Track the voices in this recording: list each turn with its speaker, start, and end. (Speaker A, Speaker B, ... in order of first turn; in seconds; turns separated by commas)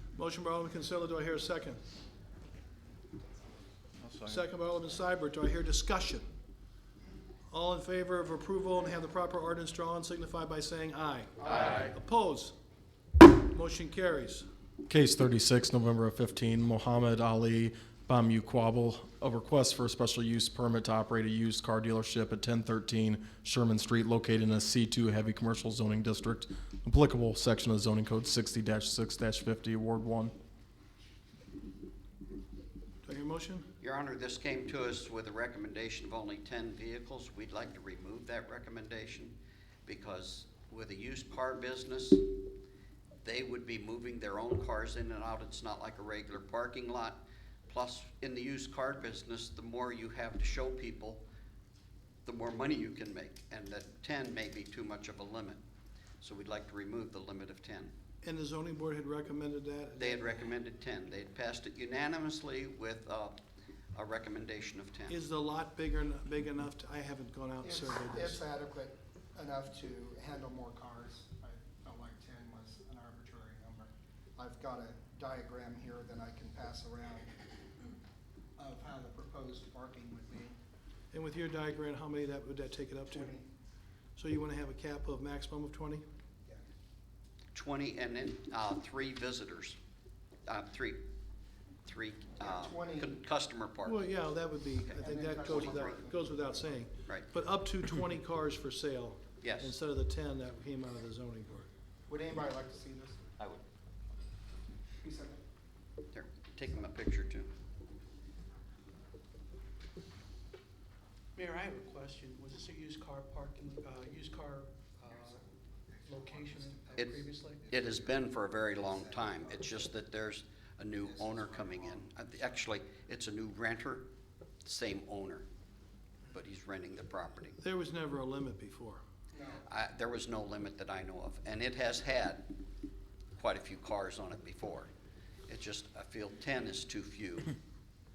Speaker A: 0.1-1.8, Speaker A: 4.2-6.2, Speaker A: 7.5-12.5, Speaker A: 13.4-14.4, Speaker B: 14.8-30.3, Speaker A: 33.0-33.7, Speaker C: 33.8-42.3, Speaker C: 43.2-51.2, Speaker C: 52.2-55.6, Speaker C: 56.2-57.9, Speaker A: 58.2-60.5, Speaker C: 60.0-63.4, Speaker C: 63.9-65.2, Speaker A: 65.1-68.4, Speaker D: 67.6-77.3, Speaker D: 78.6-80.6, Speaker A: 81.1-83.3, Speaker D: 83.1-83.5, Speaker A: 84.2-86.0, Speaker C: 87.5-89.8, Speaker C: 90.5-91.0, Speaker C: 91.8-94.0, Speaker D: 92.4-93.2, Speaker A: 93.8-101.7, Speaker D: 95.0-96.6, Speaker C: 95.5-96.0, Speaker C: 99.4-99.8, Speaker D: 102.1-103.2, Speaker D: 105.0-105.4, Speaker C: 106.1-107.5, Speaker E: 111.3-115.4, Speaker D: 115.0-119.9, Speaker E: 116.0-117.7, Speaker C: 117.0-124.1, Speaker D: 121.0-122.6, Speaker C: 124.6-125.5, Speaker C: 126.3-127.6, Speaker A: 127.6-129.0, Speaker D: 129.3-129.7, Speaker C: 129.6-132.5, Speaker C: 133.4-134.9, Speaker C: 135.5-137.5